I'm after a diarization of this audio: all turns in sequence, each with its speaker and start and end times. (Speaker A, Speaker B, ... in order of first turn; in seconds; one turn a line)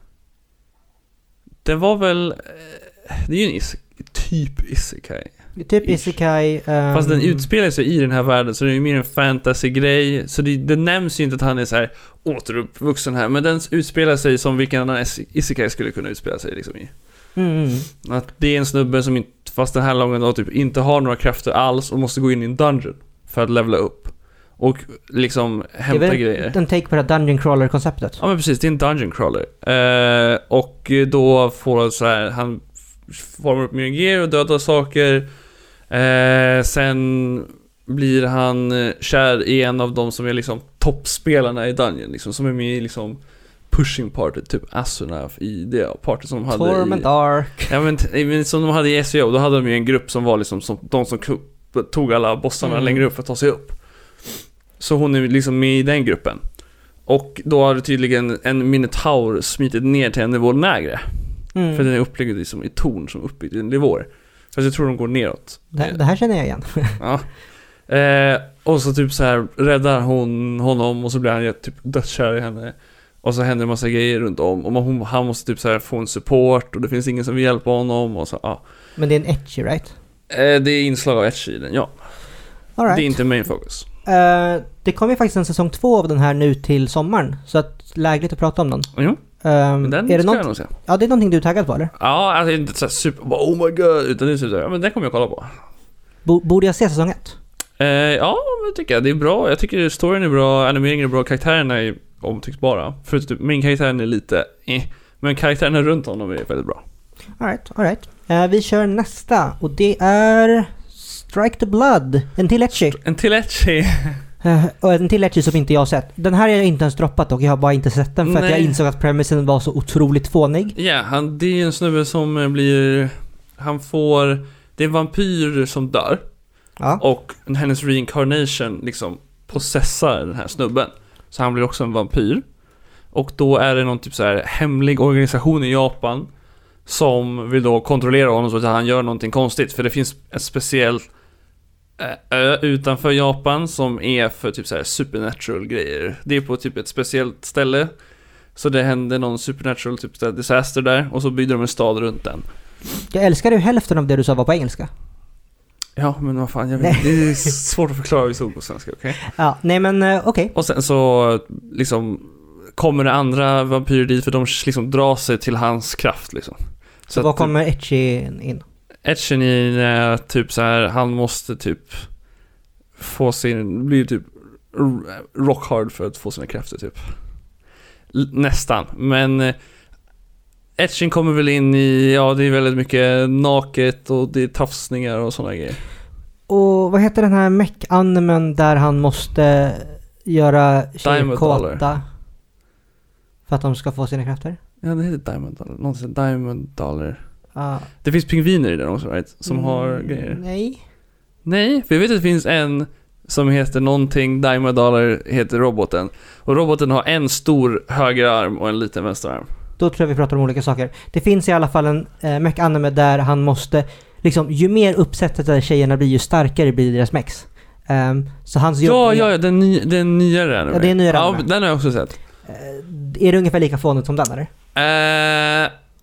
Speaker A: 1.6-5.3
Speaker B: 5.6-7.5
Speaker A: 5.8-6.2
Speaker A: 6.9-16.9
Speaker B: 17.4-17.9
Speaker A: 18.0-26.6
Speaker B: 25.9-28.2
Speaker A: 28.2-35.3
Speaker A: 35.9-47.1
Speaker B: 46.5-47.7
Speaker A: 47.7-56.4
Speaker B: 52.6-53.0
Speaker A: 57.1-61.1
Speaker B: 61.5-61.9
Speaker A: 61.7-66.0
Speaker B: 65.7-67.0
Speaker A: 67.0-67.3
Speaker A: 67.9-78.6
Speaker B: 79.0-79.9
Speaker A: 80.3-81.9
Speaker B: 82.8-83.1
Speaker A: 82.9-83.9
Speaker B: 84.0-88.9
Speaker A: 88.9-89.2
Speaker B: 89.4-91.9
Speaker A: 89.8-90.7
Speaker A: 92.0-95.5
Speaker B: 96.2-97.4
Speaker A: 97.8-106.8
Speaker B: 107.4-113.0
Speaker A: 112.7-114.2
Speaker B: 114.4-120.8
Speaker A: 118.2-118.8
Speaker A: 120.8-126.2
Speaker A: 127.0-132.4
Speaker A: 133.1-136.3
Speaker A: 136.8-141.0
Speaker A: 142.0-147.9
Speaker A: 148.5-152.4
Speaker B: 153.1-154.9
Speaker A: 156.0-159.2
Speaker B: 156.8-157.2
Speaker B: 159.2-160.5
Speaker A: 160.5-167.5
Speaker B: 167.1-168.6
Speaker A: 169.0-172.0
Speaker A: 172.9-177.0
Speaker A: 178.1-179.6
Speaker A: 180.8-185.8
Speaker B: 186.5-192.0
Speaker A: 191.0-191.8
Speaker B: 193.5-194.6
Speaker A: 194.8-197.2
Speaker B: 197.5-197.9
Speaker A: 198.0-200.4
Speaker B: 199.5-200.8
Speaker A: 201.4-209.5
Speaker B: 209.8-219.3
Speaker A: 218.8-222.1
Speaker B: 220.7-221.5
Speaker B: 222.4-224.5
Speaker A: 224.7-225.7